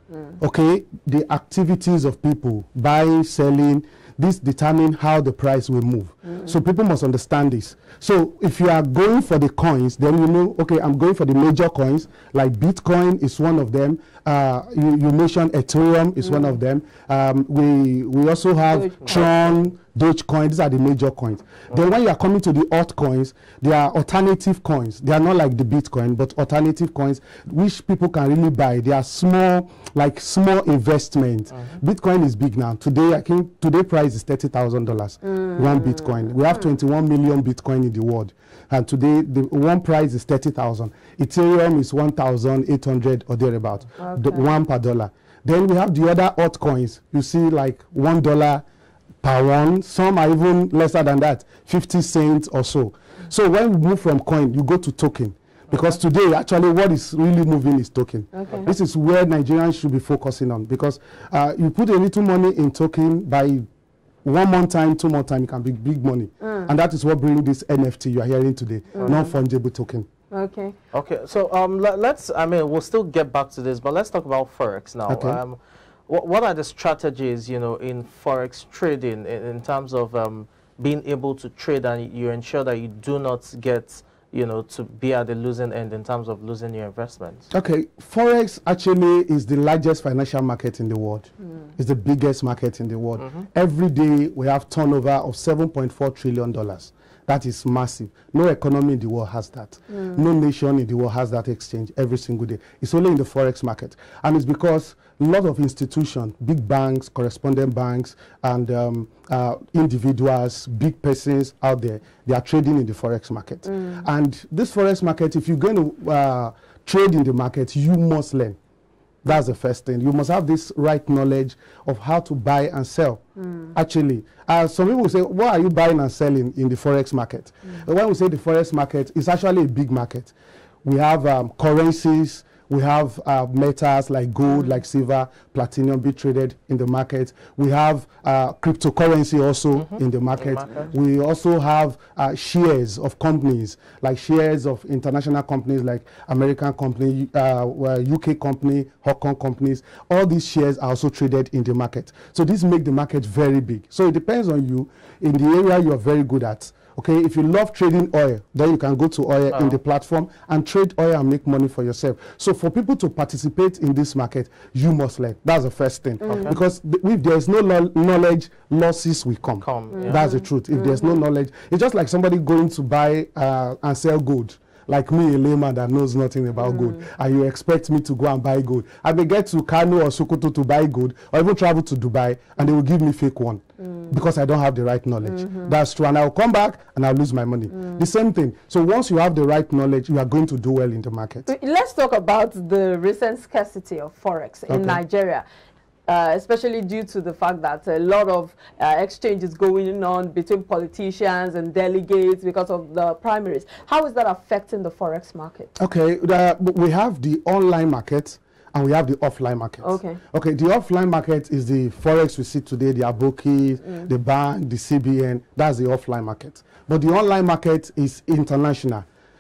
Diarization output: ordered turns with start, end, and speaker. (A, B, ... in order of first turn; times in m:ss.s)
0:00.4-0:48.6 A
0:18.7-0:19.5 B
0:35.2-0:36.3 B
0:44.0-0:44.5 B
0:49.2-1:03.7 A
0:58.3-0:58.7 B
1:04.2-1:10.1 A
1:06.4-1:06.7 B
1:09.0-1:09.3 B
1:10.3-1:10.8 B
1:10.9-1:27.5 C
1:15.1-1:15.4 A
1:27.5-1:58.6 A
1:53.7-1:54.1 B
1:59.2-2:03.2 A
2:03.4-2:03.8 B
2:03.7-3:11.5 A
2:19.8-2:20.9 C
2:39.5-2:39.8 C
2:46.2-2:46.5 B
2:46.3-2:46.6 C
2:49.6-2:50.2 C
2:49.9-2:51.2 B
2:56.6-2:57.0 B
3:03.8-3:04.1 B
3:05.2-3:05.8 B
3:11.5-3:15.4 B
3:14.7-3:15.0 A
3:16.1-3:25.7 B
3:25.8-3:39.1 A
3:29.8-3:30.2 B
3:33.8-3:34.1 B